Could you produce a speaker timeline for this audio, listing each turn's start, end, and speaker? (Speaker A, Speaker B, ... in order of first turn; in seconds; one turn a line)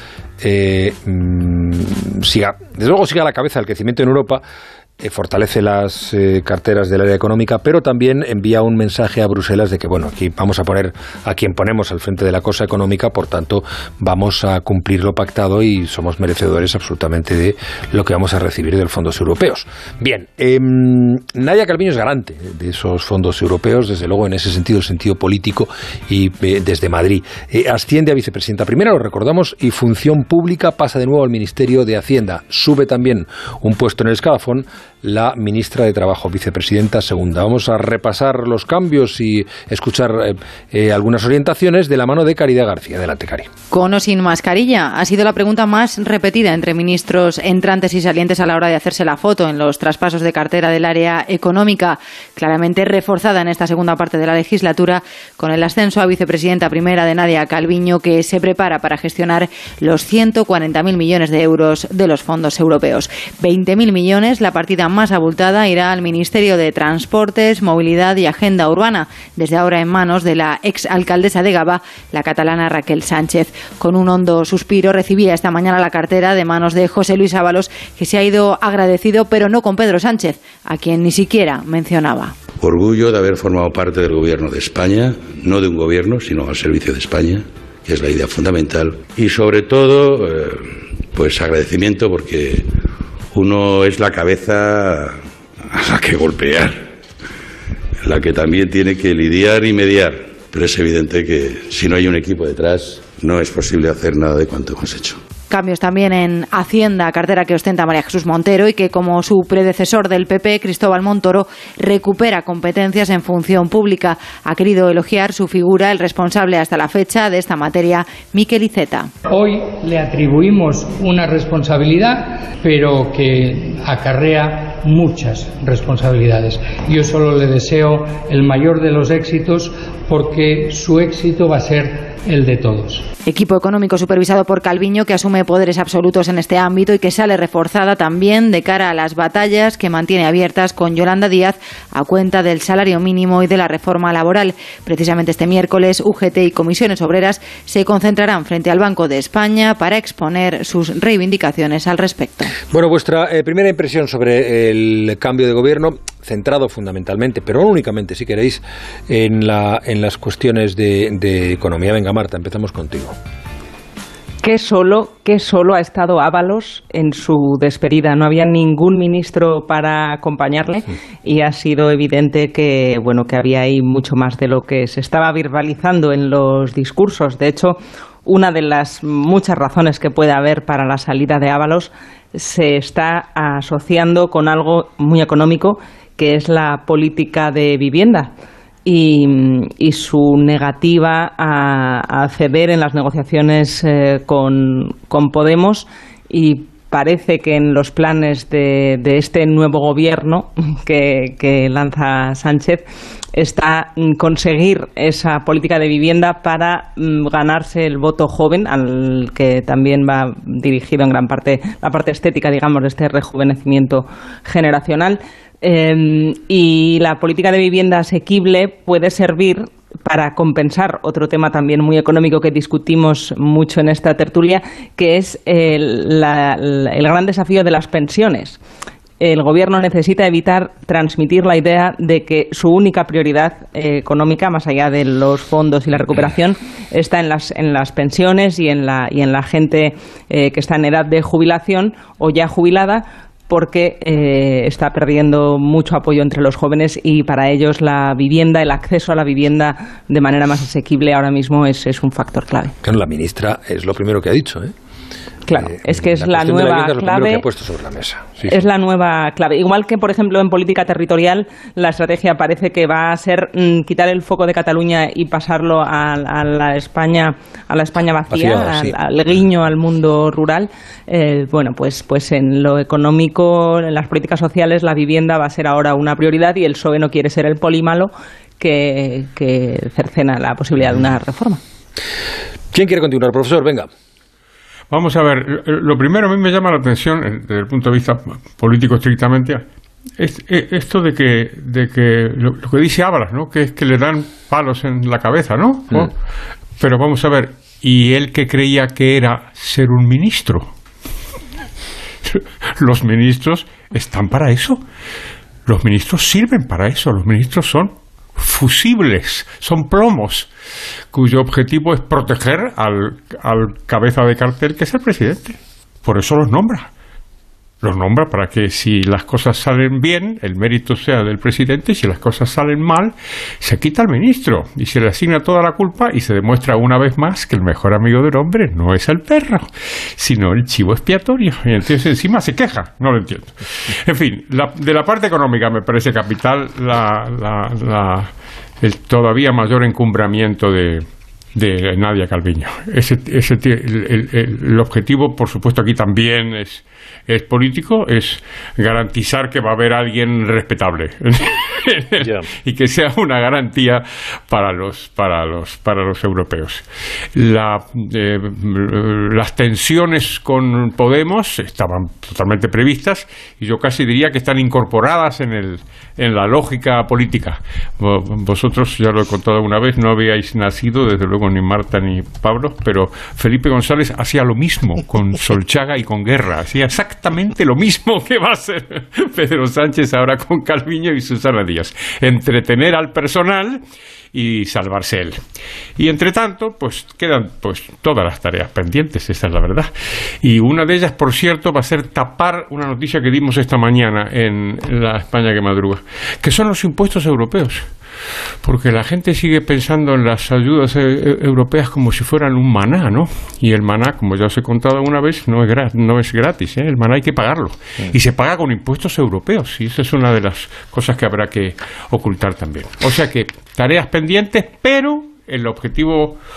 Speaker A: 0.4-4.4
Speaker A: 5.0-43.5
Speaker B: 43.7-82.3
Speaker C: 82.6-92.7
Speaker C: 93.3-95.2
Speaker C: 95.7-96.8
Speaker C: 98.0-105.2
Speaker B: 105.5-119.1
Speaker D: 119.3-133.1
Speaker B: 133.3-152.6
Speaker A: 152.7-163.1
Speaker E: 164.4-188.3
Speaker E: 188.8-228.6
Speaker E: 229.2-252.7
Speaker A: 252.8-254.7
Speaker E: 255.4-257.4
Speaker A: 255.6-258.6
Speaker E: 258.5-281.6
Speaker A: 268.3-268.9
Speaker A: 282.7-283.9
Speaker F: 284.9-289.6
Speaker F: 290.2-296.1
Speaker F: 296.8-300.7
Speaker F: 302.2-304.8
Speaker F: 305.6-310.5
Speaker F: 311.1-316.9
Speaker F: 317.8-329.6
Speaker F: 330.2-383.8
Speaker A: 352.2-352.5
Speaker F: 384.3-385.4
Speaker F: 386.0-389.9
Speaker F: 390.4-397.9
Speaker F: 398.6-416.4